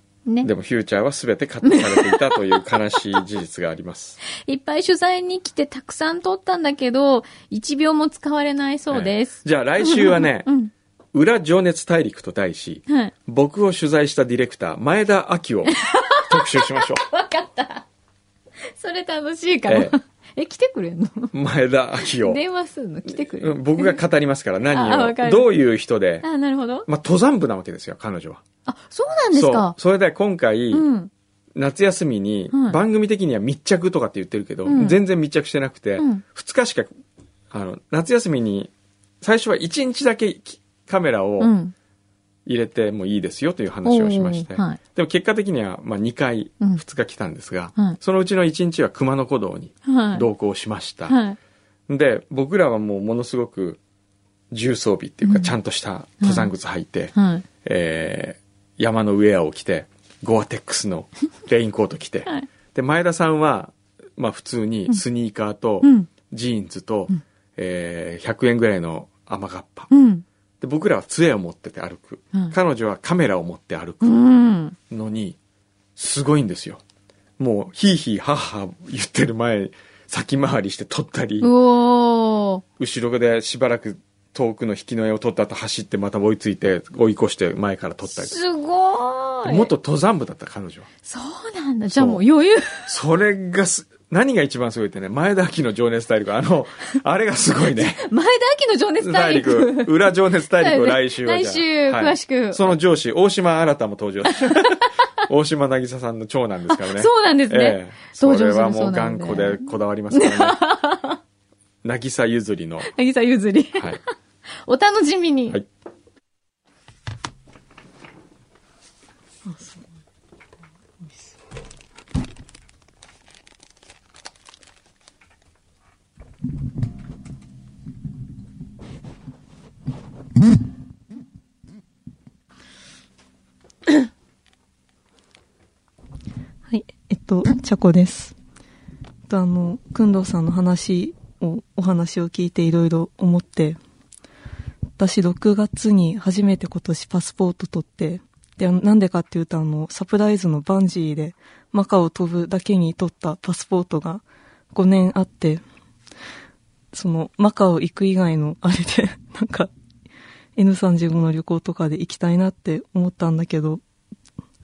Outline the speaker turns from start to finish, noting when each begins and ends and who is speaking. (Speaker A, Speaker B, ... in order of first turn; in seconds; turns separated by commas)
Speaker A: 0.4-4.2, Speaker B: 1.6-3.2, Speaker B: 4.3-10.7, Speaker A: 8.9-10.5, Speaker A: 11.1-17.0, Speaker B: 15.7-17.9, Speaker B: 18.8-21.3, Speaker A: 19.7-20.0, Speaker A: 21.3-22.4, Speaker B: 22.1-24.0, Speaker A: 23.1-26.3, Speaker B: 24.7-25.5, Speaker B: 26.2-26.9, Speaker A: 26.9-28.4, Speaker B: 28.7-29.8, Speaker A: 29.3-30.9, Speaker B: 30.7-31.1, Speaker A: 31.6-36.9, Speaker B: 32.5-32.8, Speaker B: 34.6-35.0, Speaker B: 36.0-36.2, Speaker A: 37.5-41.5, Speaker B: 41.4-41.7, Speaker A: 42.5-51.2, Speaker B: 43.9-44.8, Speaker B: 49.9-50.3, Speaker B: 51.1-51.4, Speaker A: 51.9-53.8, Speaker A: 54.5-69.9, Speaker B: 55.2-55.5, Speaker B: 56.2-56.5, Speaker B: 57.1-57.5, Speaker B: 65.8-66.1, Speaker B: 69.9-70.2, Speaker A: 70.6-74.2, Speaker B: 74.0-74.8, Speaker A: 74.9-75.4, Speaker A: 76.0-76.8, Speaker A: 77.4-81.5, Speaker B: 81.4-82.6, Speaker A: 82.8-88.3, Speaker B: 88.1-89.7, Speaker A: 89.5-90.9, Speaker B: 91.0-92.9, Speaker A: 91.9-92.2, Speaker A: 92.9-98.0, Speaker B: 97.8-102.8, Speaker A: 99.0-110.6, Speaker B: 104.4-104.8, Speaker B: 106.7-111.2, Speaker A: 111.8-112.9, Speaker B: 112.8-114.1, Speaker B: 114.6-115.6, Speaker C: 136.7-138.4, Speaker C: 139.3-143.8, Speaker C: 145.0-155.6, Speaker C: 156.9-159.7, Speaker C: 160.6-163.8